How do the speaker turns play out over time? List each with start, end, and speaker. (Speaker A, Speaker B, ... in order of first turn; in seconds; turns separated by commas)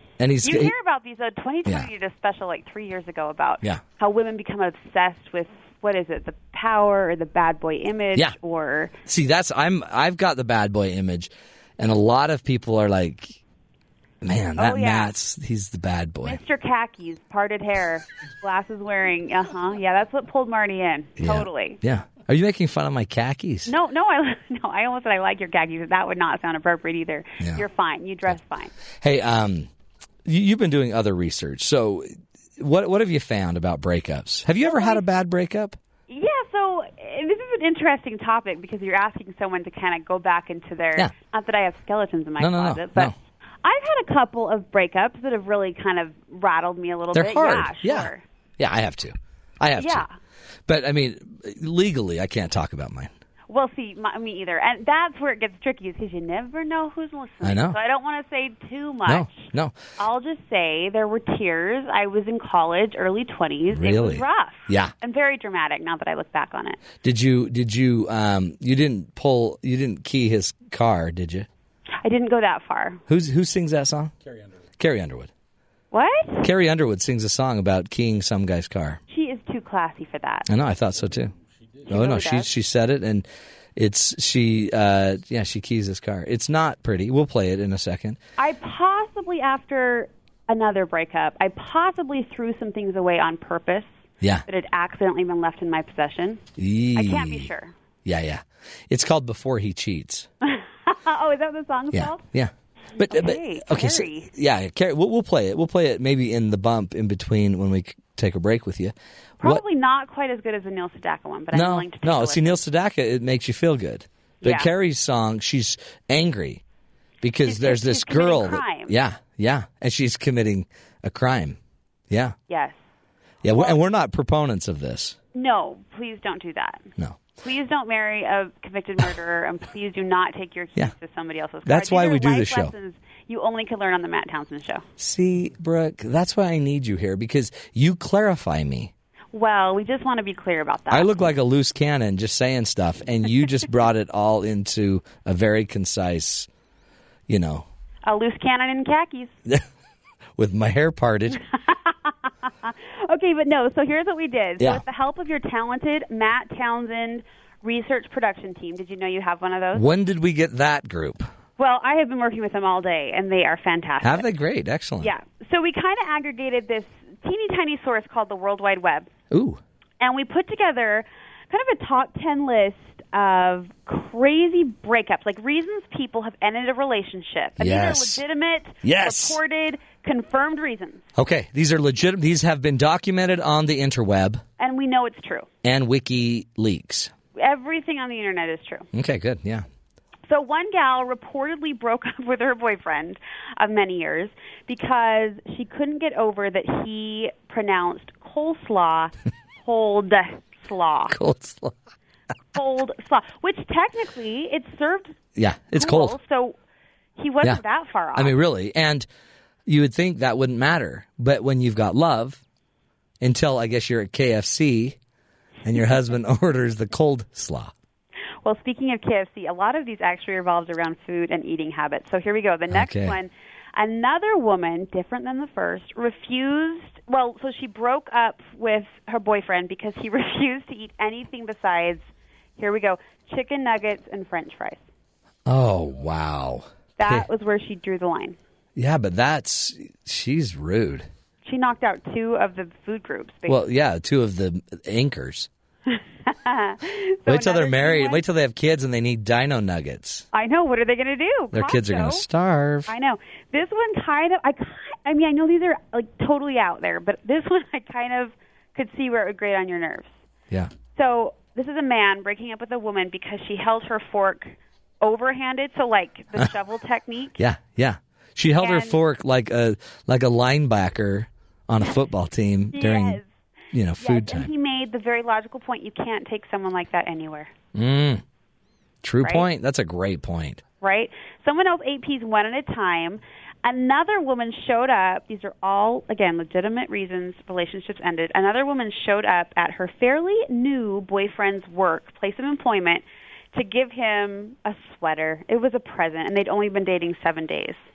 Speaker A: 0.2-0.7, Speaker B: 0.4-8.9, Speaker A: 9.1-13.4, Speaker A: 14.2-16.4, Speaker B: 14.6-15.1, Speaker B: 16.2-21.8, Speaker A: 21.2-23.7, Speaker B: 23.7-28.7, Speaker A: 29.0-29.7, Speaker A: 30.2-35.8, Speaker B: 34.6-35.0, Speaker B: 36.1-43.1, Speaker A: 42.4-43.1, Speaker B: 43.6-48.2, Speaker A: 47.1-50.0, Speaker B: 49.8-50.1, Speaker A: 50.7-53.1, Speaker B: 53.5-59.5, Speaker A: 57.4-57.8, Speaker A: 59.1-59.8, Speaker B: 60.0-66.8, Speaker A: 63.7-64.9, Speaker A: 67.0-71.5, Speaker B: 72.0-73.0, Speaker A: 73.1-74.1, Speaker A: 74.8-75.3, Speaker B: 75.9-76.5, Speaker A: 76.4-79.0, Speaker B: 79.1-80.5, Speaker A: 80.5-81.3, Speaker B: 81.9-82.5, Speaker A: 81.9-88.2, Speaker B: 88.4-93.9, Speaker B: 94.5-96.4, Speaker A: 96.6-97.5, Speaker B: 97.0-97.7, Speaker A: 98.0-100.3, Speaker B: 100.4-102.2, Speaker A: 101.9-109.6, Speaker B: 103.0-104.3, Speaker B: 109.4-112.6, Speaker A: 111.5-116.6, Speaker B: 114.4-114.7, Speaker A: 117.2-121.6, Speaker B: 117.5-118.9, Speaker A: 122.1-122.4, Speaker B: 122.5-122.8, Speaker A: 123.4-125.2, Speaker B: 125.3-134.8, Speaker A: 131.7-132.7, Speaker A: 135.0-138.9, Speaker B: 139.3-141.1, Speaker A: 140.9-146.5, Speaker A: 147.3-147.7, Speaker B: 148.1-149.3, Speaker A: 150.4-151.4, Speaker B: 151.3-159.8, Speaker A: 154.6-154.8, Speaker A: 159.7-161.3, Speaker B: 161.6-164.2, Speaker A: 164.0-165.1, Speaker B: 165.0-169.1, Speaker A: 169.3-169.6, Speaker B: 170.0-181.1, Speaker A: 177.6-178.2, Speaker A: 178.8-179.4, Speaker A: 181.2-184.4, Speaker B: 184.6-185.5, Speaker A: 185.6-187.1, Speaker B: 187.3-188.9, Speaker A: 188.9-189.7, Speaker B: 190.3-201.2, Speaker A: 201.1-201.8, Speaker B: 202.5-205.2, Speaker A: 205.4-206.2, Speaker B: 205.8-206.6, Speaker B: 207.2-208.3, Speaker A: 208.1-209.1, Speaker A: 209.7-212.4, Speaker A: 213.2-215.0, Speaker A: 215.6-217.7, Speaker B: 218.4-232.0, Speaker A: 222.7-223.2, Speaker B: 232.6-234.8, Speaker A: 235.4-237.3, Speaker B: 237.0-238.4, Speaker A: 238.8-241.1, Speaker B: 241.4-243.6, Speaker A: 243.5-245.5, Speaker B: 245.9-248.2, Speaker A: 247.3-250.3, Speaker B: 250.3-252.2, Speaker A: 251.5-252.9, Speaker B: 252.9-260.1, Speaker B: 260.9-267.4, Speaker A: 267.4-273.2, Speaker B: 268.6-269.0, Speaker B: 272.7-273.3, Speaker A: 273.7-274.5, Speaker B: 274.0-277.5, Speaker A: 277.8-278.2, Speaker A: 279.0-280.6, Speaker B: 280.8-297.8